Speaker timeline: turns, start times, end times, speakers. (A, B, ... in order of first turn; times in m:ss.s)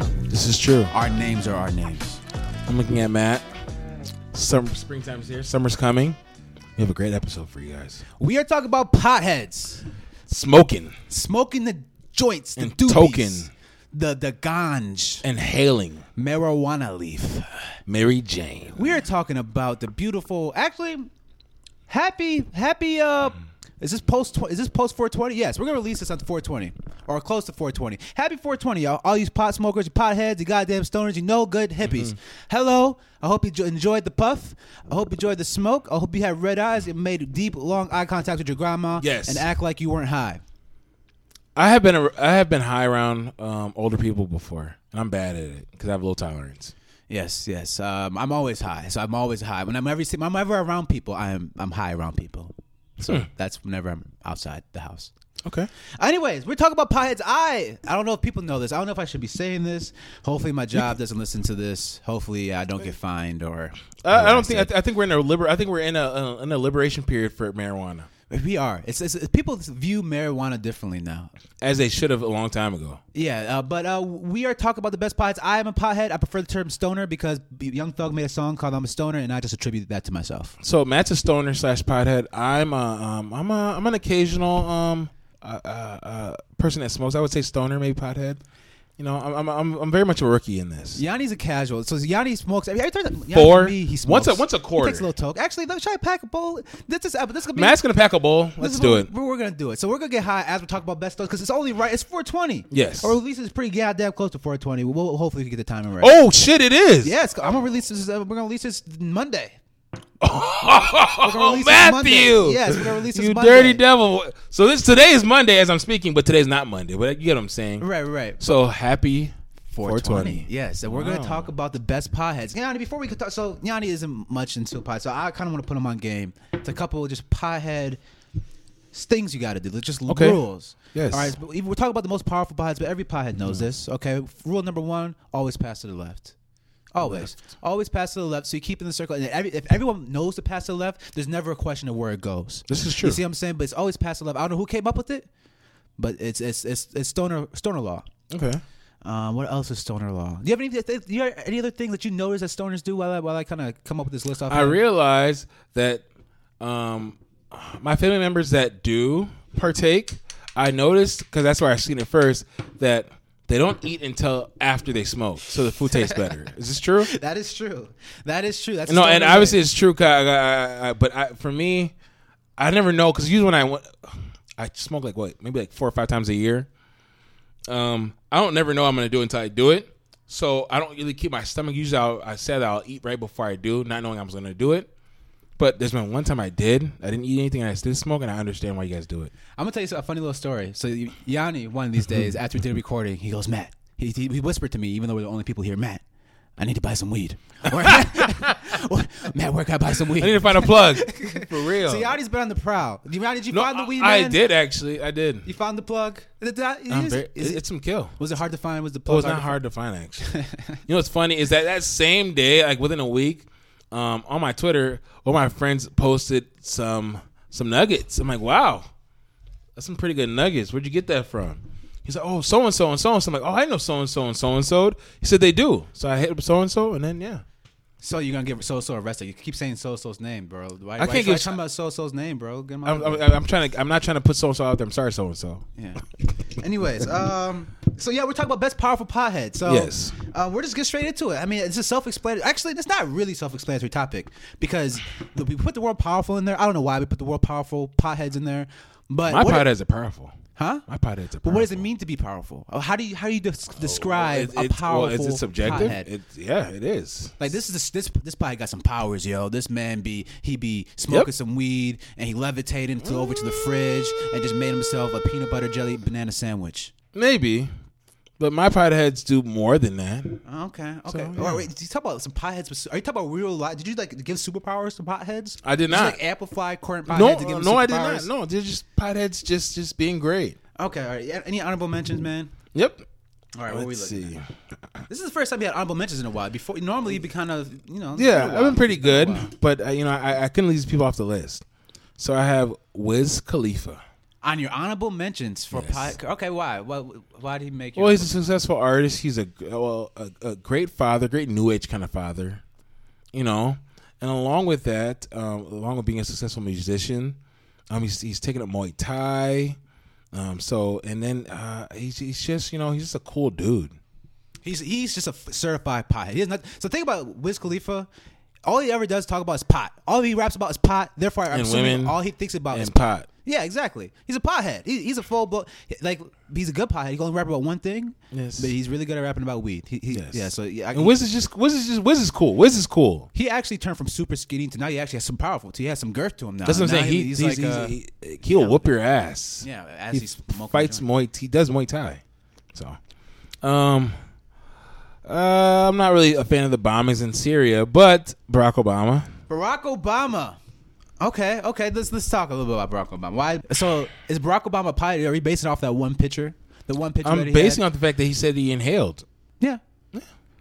0:00.3-0:00.9 A
0:00.9-0:02.2 B
0:02.7-0:03.5 A
0:04.3-0:06.2 A
0:06.8-0:08.0 A
0:08.2-0:09.8 B
0:10.3-0:11.0 A
0:11.1-0:15.2 B
0:12.6-0:13.5 A
0:15.2-0:16.1 A
0:16.2-0:17.5 B
0:17.9-0:19.0 A
0:18.8-0:21.1 B
0:21.9-0:40.4 B
0:31.8-0:32.2 A
0:39.0-0:39.5 A
0:41.6-0:46.7 A
0:47.1-0:55.1 B
0:55.4-0:55.7 A
0:56.0-1:04.7 B
1:04.0-1:08.1 A
1:08.3-1:11.3 B
1:11.6-1:13.0 A
1:13.1-1:20.6 B
1:20.6-1:28.4 A
1:29.0-1:31.0 A
1:31.0-1:37.8 B
1:33.3-1:35.1 A
1:37.5-1:39.1 A
1:38.6-1:46.2 B
1:42.7-1:43.2 A
1:46.0-1:47.2 A
1:47.0-1:49.6 B
1:50.2-1:57.9 A
1:51.2-1:53.8 B
1:57.8-1:58.4 B
1:58.4-2:01.5 A
1:59.7-2:08.0 B
2:08.9-2:16.3 B
2:10.1-2:10.4 A
2:10.9-2:11.4 A
2:16.9-2:25.3 B
2:17.0-2:17.3 A
2:22.7-2:23.2 A
2:26.0-2:28.1 B
2:28.3-2:28.6 A
2:29.0-2:34.8 B
2:34.5-2:36.0 A
2:36.6-2:47.1 A
2:45.9-2:46.2 B
2:47.0-2:49.6 B
2:48.9-2:51.9 A
2:52.6-2:56.7 A
2:57.7-3:04.9 A
3:05.6-3:09.3 A
3:09.6-3:16.0 B
3:16.6-3:24.4 B
3:17.7-3:18.6 A
3:20.1-3:22.2 A
3:23.5-3:25.5 A
3:25.4-3:27.6 B
3:26.9-3:28.2 A
3:28.2-3:29.6 B
3:29.1-3:30.3 A
3:30.2-3:30.8 B
3:30.9-3:38.9 A
3:39.8-3:47.4 A
3:48.0-3:53.3 B
3:51.0-3:51.6 A
3:52.8-3:55.6 A
3:55.8-4:09.7 B
3:59.6-4:00.2 A
4:09.3-4:11.9 A
4:10.6-4:10.8 B
4:11.4-4:16.1 B
4:13.8-4:17.4 A
4:17.4-4:26.9 B
4:27.1-4:27.7 A
4:28.4-4:30.4 A
4:30.4-4:38.3 B
4:31.1-4:31.7 A
4:35.6-4:36.2 A
4:37.1-4:40.6 A
4:40.8-4:42.5 B
4:42.7-4:43.0 A
4:43.6-4:44.4 B
4:43.7-4:44.5 A
4:45.1-4:49.5 B
4:48.2-4:51.6 A
4:52.2-4:54.0 A
4:54.4-4:58.4 B
4:55.7-4:56.2 A
4:58.0-5:02.6 A
5:03.3-5:07.4 A
5:07.9-5:09.8 A
5:10.3-5:14.0 A
5:14.6-5:18.1 B
5:18.6-5:31.1 B
5:21.5-5:22.2 A
5:22.7-5:23.3 A
5:28.3-5:28.7 A
5:30.1-5:33.3 A
5:33.3-5:38.0 B
5:36.6-5:42.2 A
5:38.5-5:38.8 B
5:39.6-5:41.0 B
5:42.7-5:43.0 A
5:43.6-5:44.2 A
5:45.2-5:49.3 A
5:49.5-5:50.6 B
5:51.2-5:57.8 B
5:57.2-5:59.2 A